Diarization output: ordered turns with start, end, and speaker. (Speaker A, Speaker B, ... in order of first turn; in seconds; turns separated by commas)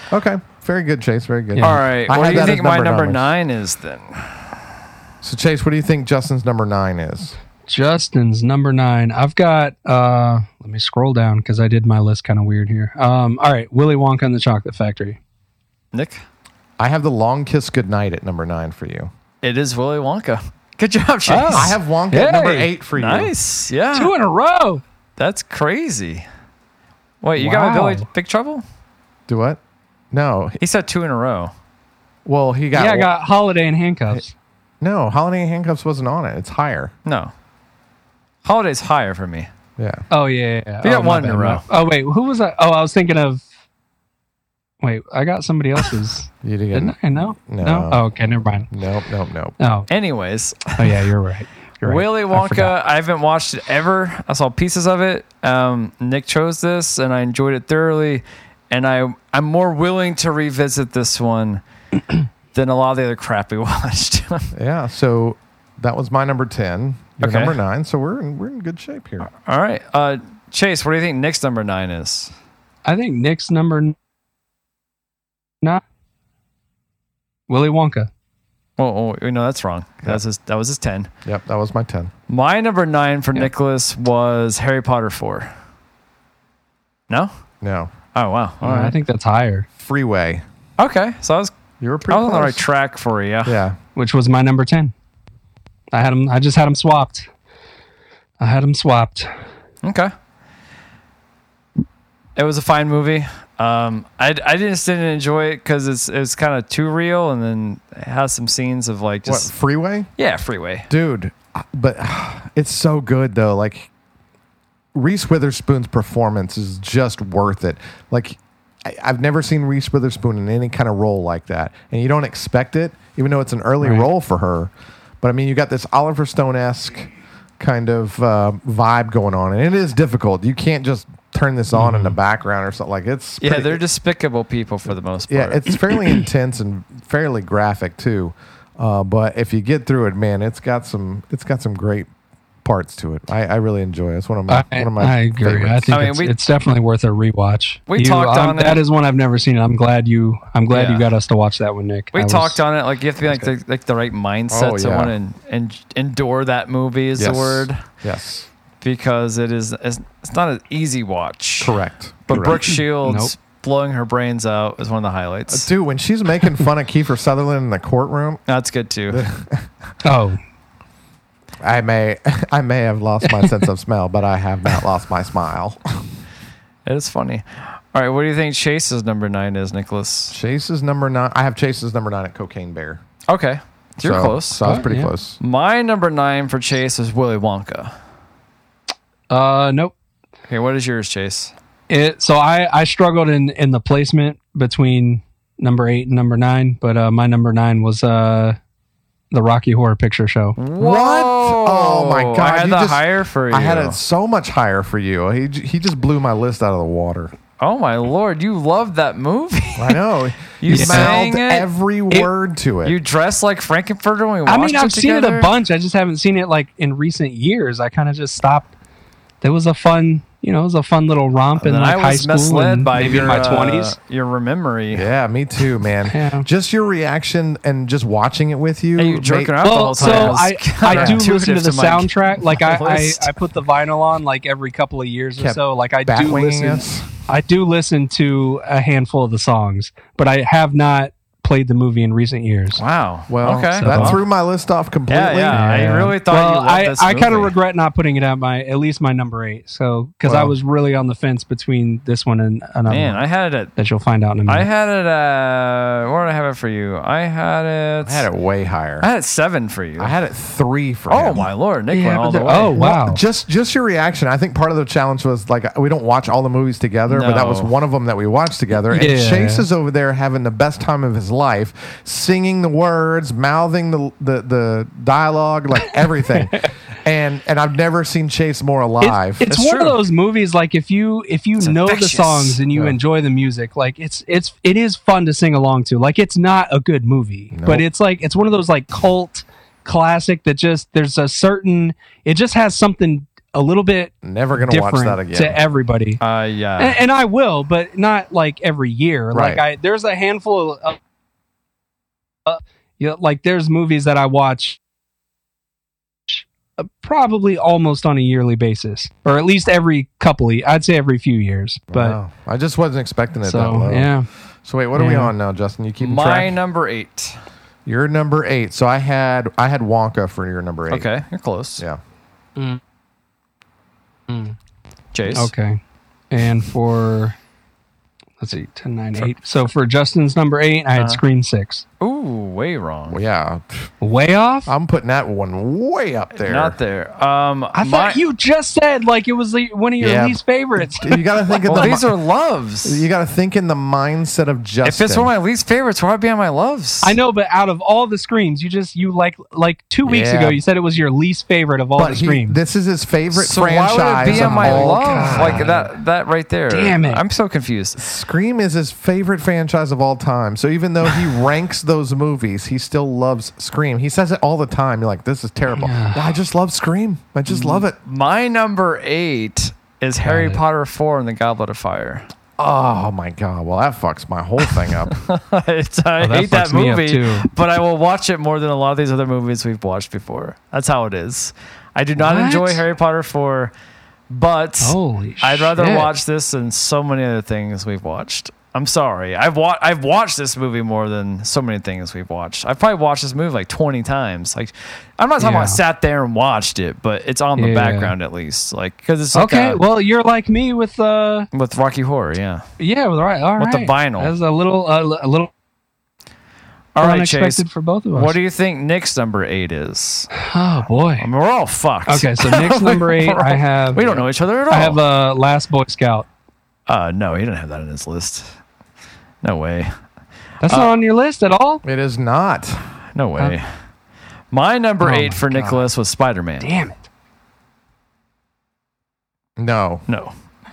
Speaker A: 0.1-3.3, Speaker B: 1.6-1.8, Speaker C: 1.6-4.5, Speaker A: 5.2-7.4, Speaker B: 7.7-15.2, Speaker C: 15.9-16.2, Speaker A: 16.8-19.1, Speaker C: 19.4-21.8, Speaker B: 21.3-22.7, Speaker A: 21.5-23.3, Speaker C: 22.9-24.1, Speaker B: 23.9-24.8, Speaker C: 25.2-26.2, Speaker C: 27.2-28.6, Speaker B: 27.4-28.1, Speaker A: 29.3-29.6, Speaker A: 30.1-30.6, Speaker C: 30.6-31.5, Speaker A: 32.2-33.1, Speaker B: 32.7-34.3, Speaker A: 34.8-36.9, Speaker C: 37.0-37.3, Speaker C: 38.4-39.5, Speaker A: 39.8-40.0, Speaker B: 40.1-43.4, Speaker C: 40.8-41.6, Speaker B: 44.8-48.7, Speaker A: 46.4-47.0, Speaker A: 47.5-48.0, Speaker A: 48.7-49.5, Speaker B: 49.6-49.9, Speaker C: 49.9-51.1, Speaker B: 50.8-52.7, Speaker C: 51.8-61.6, Speaker C: 62.5-64.5, Speaker A: 64.5-69.3, Speaker C: 67.2-67.6, Speaker C: 69.2-72.3, Speaker B: 72.8-73.9, Speaker B: 77.5-78.1, Speaker C: 78.8-81.1, Speaker A: 81.2-82.1, Speaker C: 82.3-85.5, Speaker A: 87.6-87.9, Speaker C: 88.1-88.9, Speaker B: 88.6-89.7, Speaker A: 89.8-90.4, Speaker C: 90.8-91.5, Speaker A: 91.8-92.6, Speaker C: 92.1-93.6, Speaker A: 93.4-93.8, Speaker B: 94.0-94.9, Speaker B: 95.9-97.3, Speaker B: 98.4-99.3, Speaker C: 99.8-100.1, Speaker C: 102.3-109.5, Speaker A: 109.2-110.1, Speaker C: 110.2-110.9, Speaker A: 110.9-113.9, Speaker A: 114.9-133.8, Speaker B: 123.8-124.1, Speaker B: 131.7-132.1, Speaker C: 133.4-135.9, Speaker A: 135.3-142.1, Speaker A: 142.6-146.0, Speaker B: 144.5-152.6, Speaker C: 145.9-146.3, Speaker C: 147.9-148.8, Speaker C: 150.7-151.1, Speaker C: 152.1-157.8, Speaker A: 153.2-153.5, Speaker A: 154.5-155.1, Speaker A: 157.2-158.5, Speaker C: 158.8-165.7, Speaker A: 161.6-162.6, Speaker B: 162.4-163.3, Speaker A: 165.5-168.4, Speaker C: 168.5-169.2, Speaker A: 169.1-169.7, Speaker B: 170.0-170.4, Speaker A: 171.6-176.0, Speaker B: 173.2-173.5, Speaker C: 176.8-180.3, Speaker A: 180.3-183.0, Speaker C: 183.3-184.7, Speaker A: 184.0-185.4, Speaker B: 184.6-185.1, Speaker C: 185.4-187.9, Speaker B: 189.3-189.9, Speaker C: 190.5-191.5, Speaker B: 191.9-198.6, Speaker B: 199.3-200.6, Speaker C: 200.6-204.0, Speaker A: 200.8-207.3, Speaker C: 207.6-211.7, Speaker A: 209.8-212.9, Speaker B: 210.7-211.1, Speaker C: 212.8-215.5, Speaker B: 214.5-218.7, Speaker B: 219.4-223.9, Speaker C: 221.6-225.1, Speaker A: 224.9-231.2, Speaker B: 226.1-226.4, Speaker C: 229.0-233.3, Speaker B: 229.6-242.8, Speaker A: 235.4-237.1, Speaker C: 242.7-244.2, Speaker A: 243.3-245.9, Speaker B: 243.8-244.2, Speaker C: 245.1-247.5, Speaker B: 245.5-253.2, Speaker A: 250.2-250.5, Speaker C: 252.9-253.7, Speaker B: 253.8-254.7, Speaker C: 254.4-258.3, Speaker A: 258.0-259.1, Speaker C: 259.0-260.1, Speaker A: 260.0-261.5, Speaker C: 261.1-262.8, Speaker B: 261.9-263.2, Speaker A: 262.8-279.5, Speaker C: 267.1-267.7, Speaker B: 268.9-269.6, Speaker B: 276.3-276.7, Speaker B: 279.0-296.2, Speaker C: 279.5-280.0, Speaker C: 281.6-282.6, Speaker A: 287.5-287.9, Speaker A: 294.2-295.6, Speaker C: 296.2-297.0, Speaker B: 296.8-301.0, Speaker A: 299.3-299.6, Speaker B: 302.4-304.8, Speaker B: 306.3-312.2, Speaker A: 311.9-314.1, Speaker B: 313.4-314.3, Speaker A: 314.6-316.6, Speaker B: 314.9-315.3, Speaker C: 316.0-317.4, Speaker A: 317.9-321.1, Speaker C: 320.9-321.8, Speaker B: 324.3-324.6, Speaker C: 325.1-325.5, Speaker B: 325.3-325.8, Speaker B: 326.3-327.4, Speaker B: 328.4-331.8, Speaker C: 330.9-331.2, Speaker C: 332.0-333.2, Speaker A: 333.1-333.8, Speaker B: 334.0-334.7, Speaker A: 334.6-336.8, Speaker C: 336.4-338.2, Speaker B: 337.7-342.0, Speaker A: 340.0-342.1, Speaker C: 341.7-343.1, Speaker A: 342.8-345.3, Speaker C: 344.8-347.1, Speaker B: 347.0-352.6, Speaker A: 350.0-350.6, Speaker A: 351.9-355.7, Speaker C: 353.3-358.0, Speaker B: 354.2-355.9, Speaker B: 356.7-357.2, Speaker A: 358.0-367.9, Speaker B: 365.7-366.3, Speaker C: 367.5-372.2, Speaker B: 370.2-370.6, Speaker A: 372.6-375.2, Speaker C: 374.6-383.7, Speaker B: 376.2-377.5, Speaker B: 382.2-382.8, Speaker C: 384.3-399.8, Speaker B: 384.8-386.1, Speaker B: 395.4-395.8, Speaker B: 397.6-398.1, Speaker B: 399.3-401.5, Speaker C: 401.5-402.6, Speaker B: 402.8-405.5, Speaker C: 403.6-404.3, Speaker C: 406.9-410.3, Speaker B: 407.0-408.4, Speaker B: 410.4-411.3, Speaker C: 411.2-415.0, Speaker B: 412.1-414.0, Speaker B: 414.7-416.3, Speaker C: 416.9-418.5, Speaker C: 419.4-419.9, Speaker B: 420.6-421.8, Speaker C: 420.6-420.9, Speaker A: 421.8-422.8, Speaker C: 423.1-423.6, Speaker C: 424.5-426.7, Speaker B: 425.0-425.4, Speaker A: 425.5-425.9, Speaker B: 426.6-427.0, Speaker A: 429.6-430.0